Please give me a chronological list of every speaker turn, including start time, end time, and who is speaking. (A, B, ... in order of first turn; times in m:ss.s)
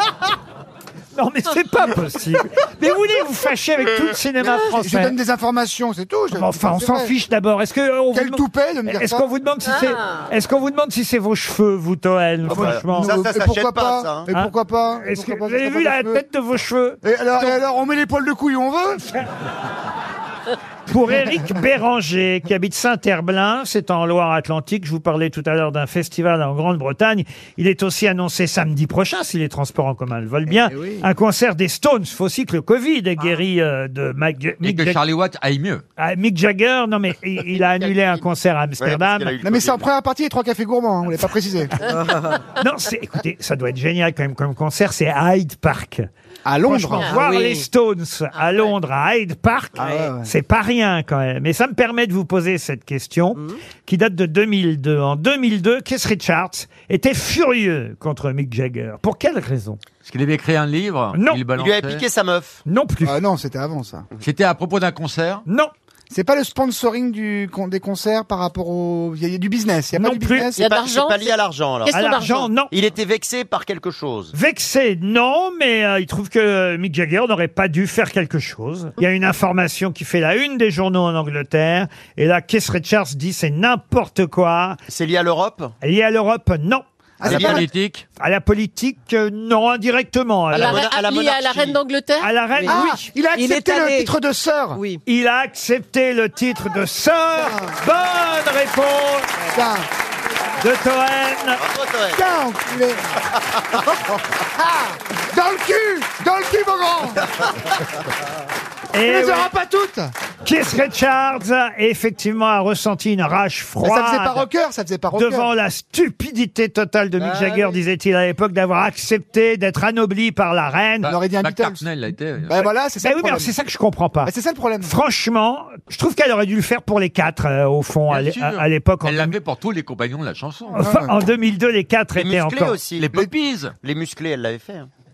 0:01.2-0:05.2 A
0:04.5-0:07.1 B
0:06.3-0:13.1 A
0:08.1-0:09.3 B
0:12.5-0:14.3 C
0:12.5-0:16.2 B
0:14.3-0:17.6 A
0:17.0-0:19.1 B
0:20.9-0:35.0 A
0:30.5-0:31.0 B
0:34.6-0:35.8 D
0:36.0-0:39.4 A
0:37.7-0:38.2 E
0:38.8-0:39.9 C
0:39.4-0:41.8 B
0:41.9-0:42.4 F
0:42.6-0:46.1 A
0:46.4-0:47.2 B
0:46.7-0:59.8 A
0:47.0-0:47.4 E
0:47.1-0:47.6 F
0:48.4-0:48.7 E
0:49.8-0:50.3 B
1:00.0-1:02.0 D
1:01.1-1:01.4 A
1:01.6-1:02.6 C
1:02.7-1:03.2 A
1:03.0-1:04.1 B
1:04.2-1:05.4 D
1:06.1-1:10.6 B
1:10.0-1:10.5 A
1:10.6-1:12.5 E
1:10.6-1:12.1 C
1:11.9-1:12.7 A
1:12.7-1:14.3 C
1:14.3-1:24.8 A
1:24.9-1:25.7 C
1:25.8-1:27.6 A
1:27.2-1:27.7 B
1:27.2-1:28.0 D
1:27.3-1:27.6 C
1:28.2-1:30.8 A
1:30.5-1:31.8 C
1:30.5-1:32.3 E
1:32.2-1:33.1 A
1:32.7-1:34.8 B
1:33.3-1:34.1 F
1:34.8-1:35.0 F
1:35.1-1:39.3 A
1:39.5-1:39.9 B
1:40.6-1:41.6 A
1:41.6-1:42.2 C
1:42.1-1:43.1 B
1:43.5-1:44.2 C
1:44.6-1:47.3 B
1:48.9-1:49.5 A
1:49.0-1:50.1 B
1:50.4-1:54.4 A
1:53.8-1:55.5 B
1:55.1-2:01.1 A
1:57.2-1:57.8 B
2:01.0-2:02.7 D
2:01.1-2:01.9 B
2:02.4-2:03.5 B
2:03.0-2:09.4 A
2:04.2-2:04.9 B
2:08.1-2:10.8 D
2:10.7-2:12.8 A
2:10.8-2:11.1 B
2:12.2-2:13.3 C
2:13.0-2:13.7 D
2:13.8-2:14.9 C